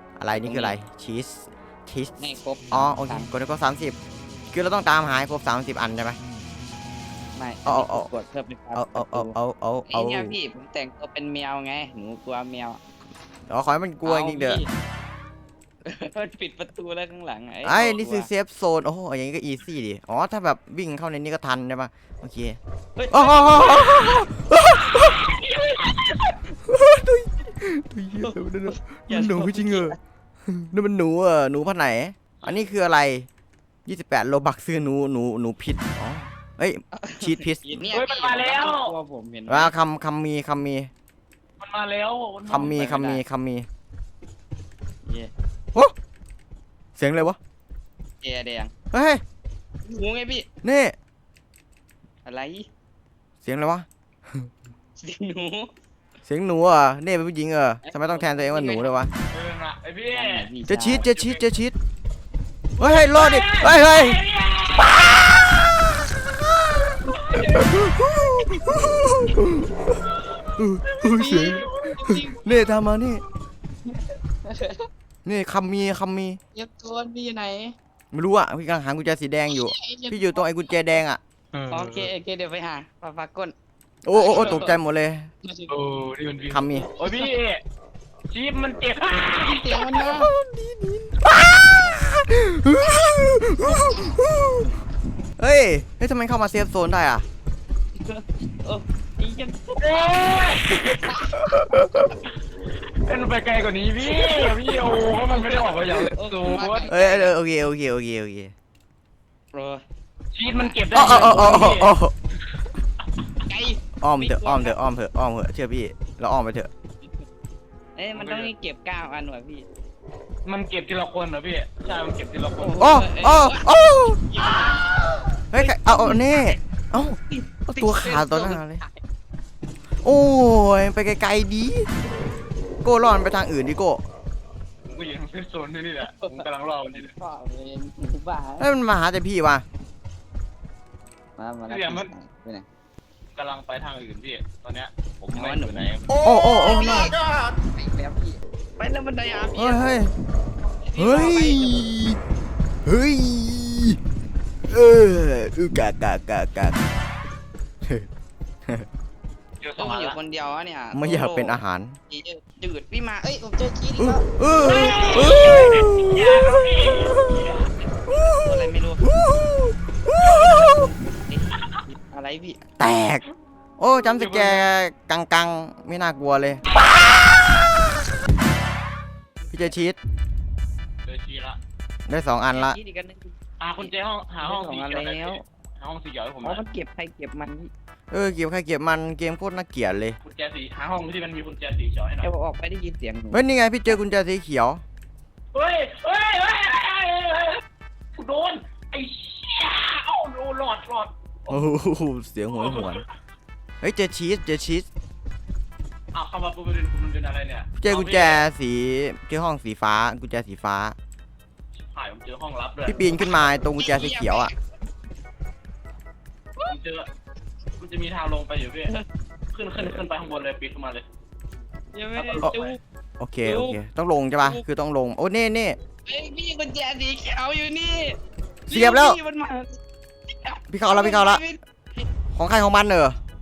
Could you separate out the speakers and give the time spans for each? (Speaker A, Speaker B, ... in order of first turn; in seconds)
Speaker A: 0.2-4.0, 4.5-6.2, 7.7-8.1, 8.7-10.3, 13.5-14.6, 17.6-22.6, 23.1-25.1, 26.6-33.3, 33.9-37.9, 39.5-40.9, 42.5-43.7, 47.0-47.4, 48.9-49.2, 50.6-51.0, 53.4-54.5, 56.3-59.1, 60.7-61.8, 62.8-64.2, 65.0-69.9, 70.6-73.2, 75.2-76.4, 78.1-81.2, 84.0-85.3, 86.5-86.9, 90.0-94.7, 95.4-97.3, 106.9-108.5, 110.9-112.1, 114.0-116.7, 122.8-124.2, 125.5-128.8, 130.0-131.9, 132.8-134.0, 138.6-139.6, 146.2-147.1, 149.6-150.1, 151.0-152.2, 152.9-154.0, 154.7-156.8, 160.9-162.0, 164.0-167.4, 168.1-170.9, 172.8-173.2, 173.8-176.6, 179.5-180.0, 182.1-182.8, 188.1-190.2, 193.3-194.8, 201.5-203.0, 203.8-204.9, 207.8-210.9, 212.8-214.5, 223.2-225.8, 228.7-229.2, 230.7-231.4, 232.3-233.2
Speaker B: 0.3-0.8, 2.2-3.3, 7.3-9.4, 9.9-12.8, 14.0-14.7, 15.8-18.3, 23.0-24.3, 28.2-30.0, 37.0-39.7, 42.5-43.2, 45.0-45.3, 48.2-48.7, 49.9-50.5, 52.2-52.6, 55.0-55.7, 57.9-59.0, 60.1-61.1, 67.3-67.8, 68.4-69.3, 71.0-72.7, 73.9-74.9, 76.5-77.7, 79.5-80.5, 81.7-83.5, 84.1-84.8, 85.4-85.7, 86.9-87.3, 89.4-90.3, 98.0-101.4, 104.1-107.4, 109.5-109.8, 110.5-111.7, 113.5-114.8, 118.0-119.7, 122.6-126.4, 127.3-128.9, 136.0-138.7, 141.4-142.7, 145.3-149.9, 150.6-151.9, 159.8-165.7, 167.8-169.1, 170.2-172.6, 179.5-179.7, 182.5-185.4, 186.4-187.7, 192.2-194.0, 213.8-214.5, 221.9-222.8, 223.4-223.8, 224.4-224.6, 226.1-229.8, 230.3-232.1
Speaker C: 24.9-26.4, 37.9-38.9, 41.6-42.8, 59.3-61.4, 62.8-65.5, 67.1-67.6, 70.9-72.0, 81.5-82.1, 84.3-84.8, 85.7-87.6, 88.3-90.0, 99.8-102.2, 103.0-106.9, 110.3-112.0, 112.5-113.2, 118.1-118.5, 120.5-122.8, 134.9-137.1, 141.7-142.1, 143.3-146.1, 159.6-160.2, 164.6-167.7, 174.0-174.7, 181.1-181.6, 183.6-186.6, 190.2-192.3, 195.5-197.6, 198.2-201.6, 202.6-203.0, 206.1-208.5, 211.8-213.2, 216.7-217.1, 217.8-218.9, 219.5-221.1, 222.2-222.8